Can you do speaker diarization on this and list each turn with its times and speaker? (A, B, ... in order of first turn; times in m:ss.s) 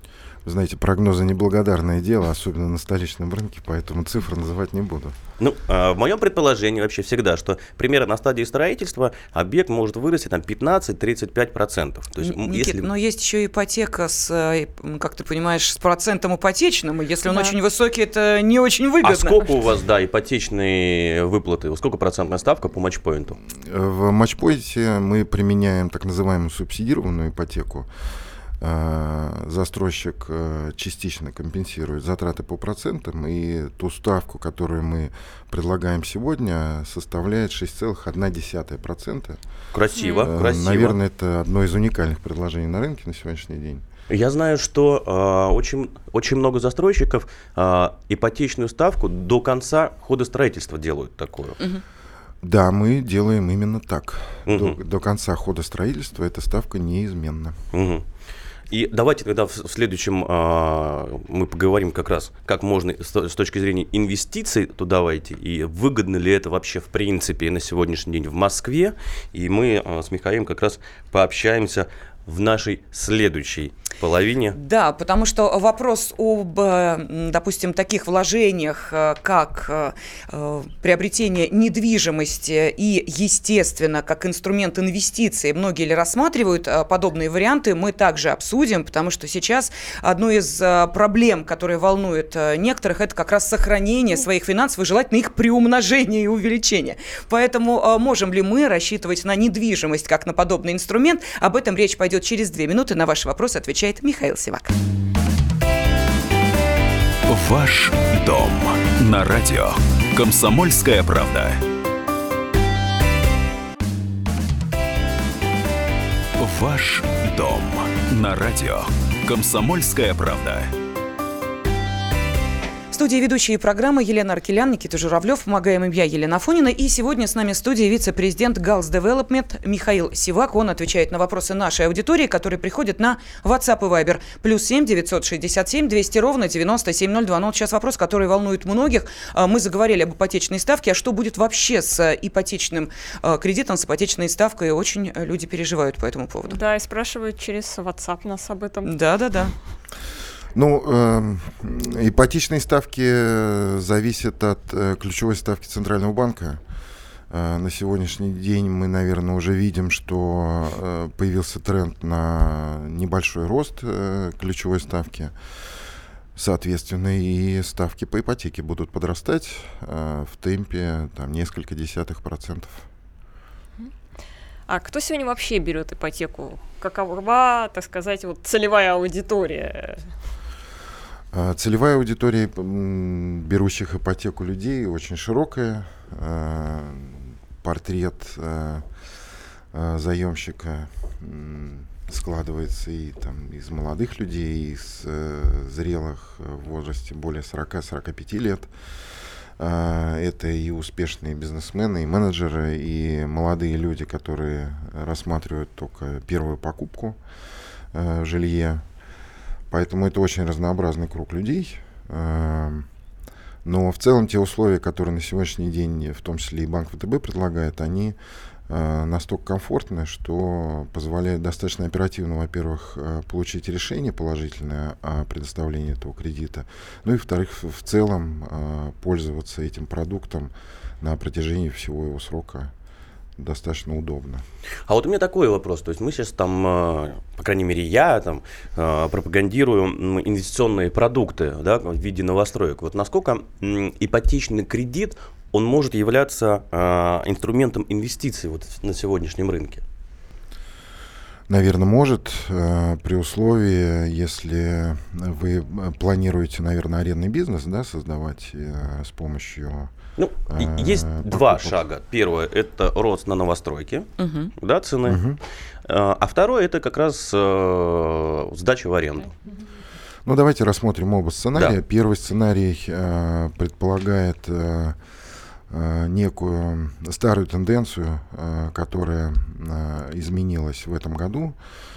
0:00.4-0:05.2 A
0:05.4-0:12.9 B
0:12.2-0:19.5 C
0:19.0-0:23.4 B
0:23.5-0:27.9 A
0:28.6-0:39.4 A
0:39.7-0:41.0 B
0:39.9-0:40.2 D
0:40.2-0:43.8 A
0:44.1-0:51.6 B
0:52.4-0:57.6 A
0:54.5-0:54.8 B
0:57.7-0:58.0 B
0:58.7-1:14.6 B
1:14.5-1:44.7 C
1:47.3-1:51.6 E
1:56.4-2:00.7 E
2:02.9-2:26.6 C
2:26.5-2:28.9 D
2:28.8-2:29.5 C
2:30.5-2:36.6 A
2:37.3-2:45.3 A
2:46.4-2:52.8 A
2:54.7-3:00.1 D
3:01.3-3:08.8 A
3:09.7-3:18.7 A
3:19.6-3:27.2 A
3:27.9-3:28.8 A
3:29.7-3:32.9 A
3:33.6-3:38.2 A
3:38.7-3:52.7 A
3:53.4-3:54.4 A
3:54.9-4:09.8 B
4:11.5-4:19.9 A
4:20.2-4:25.2 B
4:20.5-4:21.8 A
4:24.2-4:24.5 C
4:25.0-4:25.4 A
4:25.8-4:29.3 B
4:30.2-4:35.0 A
4:35.7-4:41.5 A